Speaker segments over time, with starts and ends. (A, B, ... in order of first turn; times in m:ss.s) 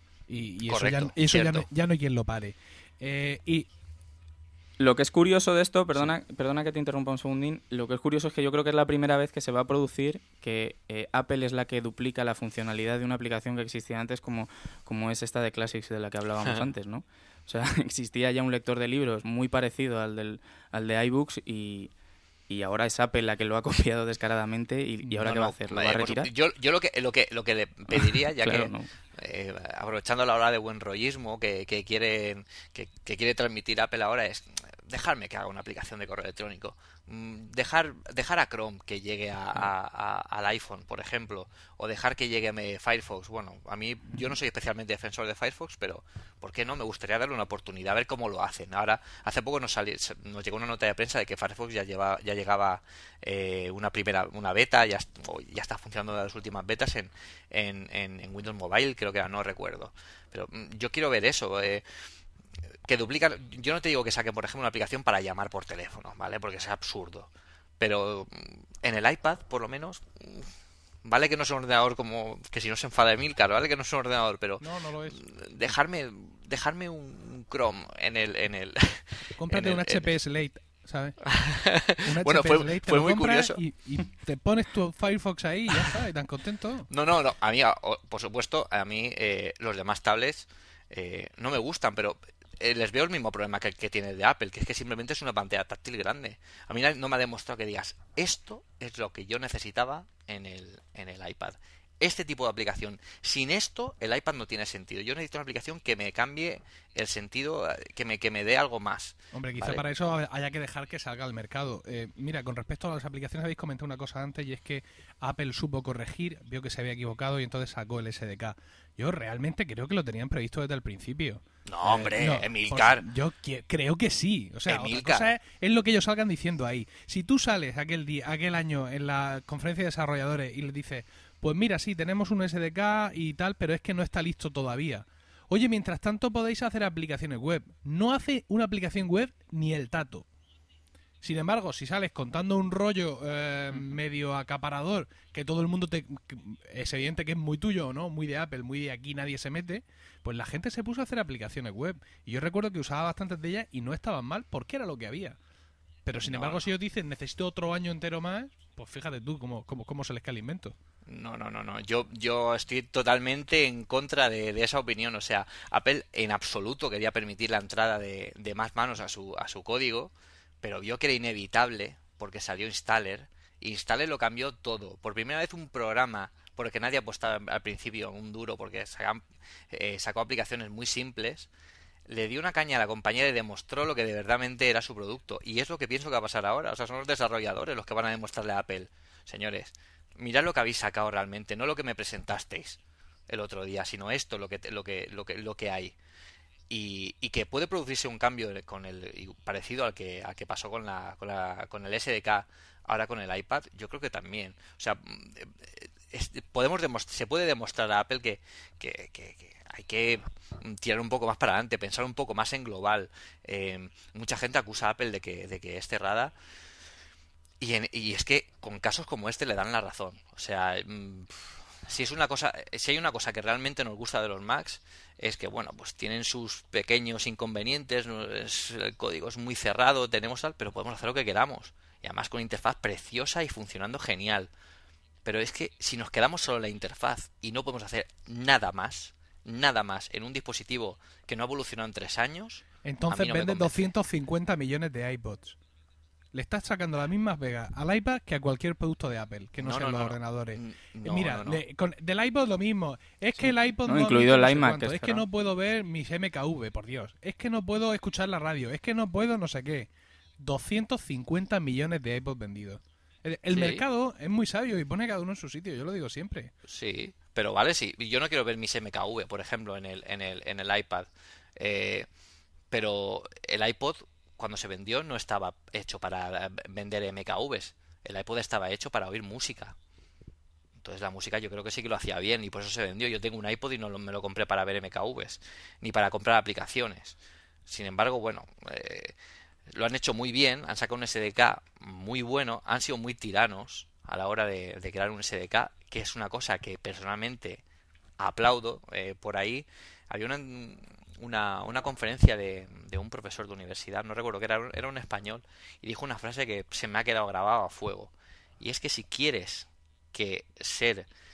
0:00.3-0:03.7 A
0:00.6-0:01.6 B
0:04.8-0:21.9 C
0:22.5-0:26.3 C
0:25.1-1:01.8 B
0:27.9-0:28.9 C
1:02.8-1:10.5 B
1:11.0-1:20.1 B
1:14.6-1:15.2 A
1:19.4-1:21.2 A
1:21.3-1:23.6 B
1:22.0-1:26.9 A
1:26.9-1:49.8 B
1:49.3-2:20.2 A
2:01.6-2:03.0 B
2:04.7-2:05.3 B
2:21.2-2:35.4 A
2:36.0-2:40.8 A
2:36.2-2:36.7 B
2:41.1-2:50.1 B
2:50.6-3:01.5 B
3:02.1-3:15.9 B
3:16.7-3:36.3 B
3:37.6-3:54.5 B
3:55.2-4:03.9 B
4:02.8-4:05.6 A
4:06.3-4:26.5 A
4:09.6-4:11.6 B
4:13.8-4:15.2 C
4:23.5-4:23.8 B
4:26.7-4:32.1 B
4:32.7-4:39.8 B
4:40.8-4:49.1 B
4:49.7-4:57.6 B
4:58.2-5:11.1 B